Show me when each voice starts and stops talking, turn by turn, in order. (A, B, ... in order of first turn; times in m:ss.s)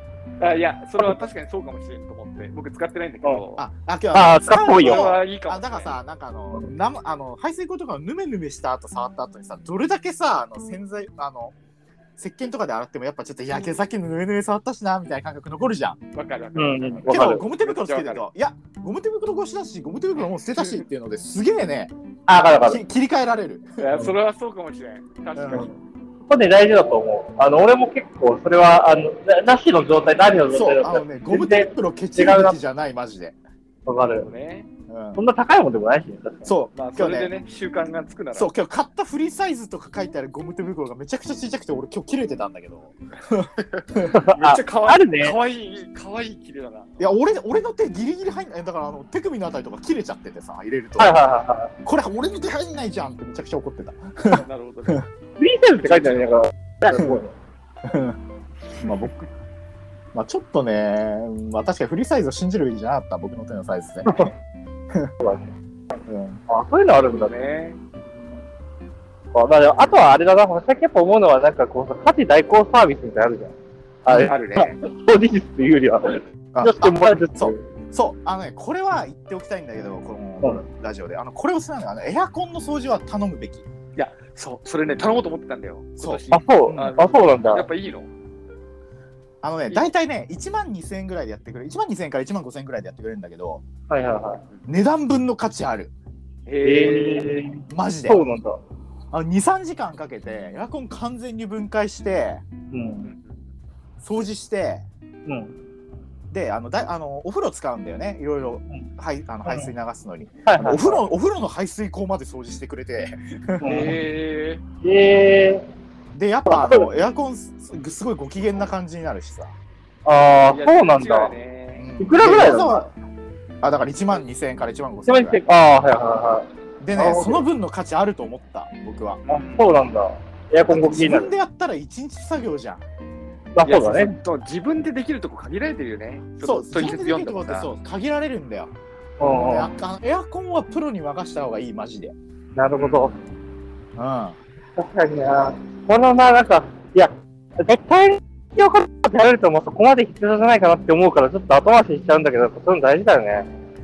0:00.4-0:03.6 A
0:03.6-0:11.5 B
0:04.1-0:05.2 C
0:04.7-0:06.0 A
0:12.2-0:16.0 B
0:16.1-0:18.2 A
0:16.6-0:17.4 C
0:17.1-0:21.9 B
0:22.3-0:22.8 C
0:22.6-0:24.0 B
0:23.8-0:25.7 A
0:25.4-0:25.7 B
0:26.3-0:32.6 C
0:30.5-0:33.4 B
0:33.9-0:34.3 C
0:34.1-0:34.7 A
0:34.9-0:35.2 B
0:35.2-0:36.5 C
0:36.4-0:37.3 B
0:36.8-0:38.5 A
0:38.4-0:44.2 B
0:43.6-0:47.0 A
0:44.1-0:45.4 C
0:47.0-0:51.2 B
0:51.0-0:51.7 C
0:51.8-0:55.0 B
0:54.3-0:55.0 A
0:55.4-0:57.3 C
0:55.8-0:56.4 A
0:56.9-0:57.2 B
0:57.8-0:58.2 B
0:58.8-0:59.2 B
1:00.1-1:04.3 B
1:04.1-1:04.3 C
1:05.2-1:05.5 C
1:06.1-1:06.4 B
1:06.5-1:07.3 C
1:07.0-1:07.8 A
1:09.3-1:17.6 C
1:14.3-1:14.8 A
1:16.5-1:23.6 B
1:24.0-1:28.1 A
1:26.0-1:26.9 B
1:26.3-1:27.7 C
1:29.4-1:33.6 B
1:33.9-1:34.4 C
1:34.7-1:35.9 B
1:36.5-1:37.4 A
1:36.6-1:38.6 C
1:37.7-1:38.2 B
1:39.1-1:42.4 B
1:42.7-1:43.1 C
1:43.0-1:43.6 A
1:44.0-1:44.9 B
1:45.3-1:45.5 C
1:46.3-1:53.9 B
1:49.4-1:49.7 C
1:50.5-1:50.9 C
1:53.6-1:54.0 C
1:53.6-1:54.6 A
1:54.8-1:55.6 C
1:56.1-1:59.6 B
1:56.5-1:56.9 C
2:00.0-2:01.3 C
2:00.4-2:01.9 A
2:01.8-2:02.9 B
2:02.0-2:02.8 C
2:03.6-2:05.4 B
2:05.1-2:07.4 C
2:06.8-2:09.2 B
2:09.2-2:09.8 A
2:09.3-2:11.3 C
2:10.7-2:12.8 B
2:13.6-2:14.2 C
2:13.6-2:17.7 A
2:16.4-2:22.2 B
2:19.2-2:19.7 C
2:22.6-2:23.1 C
2:22.7-2:23.2 A
2:24.0-2:24.4 B
2:24.8-2:33.5 C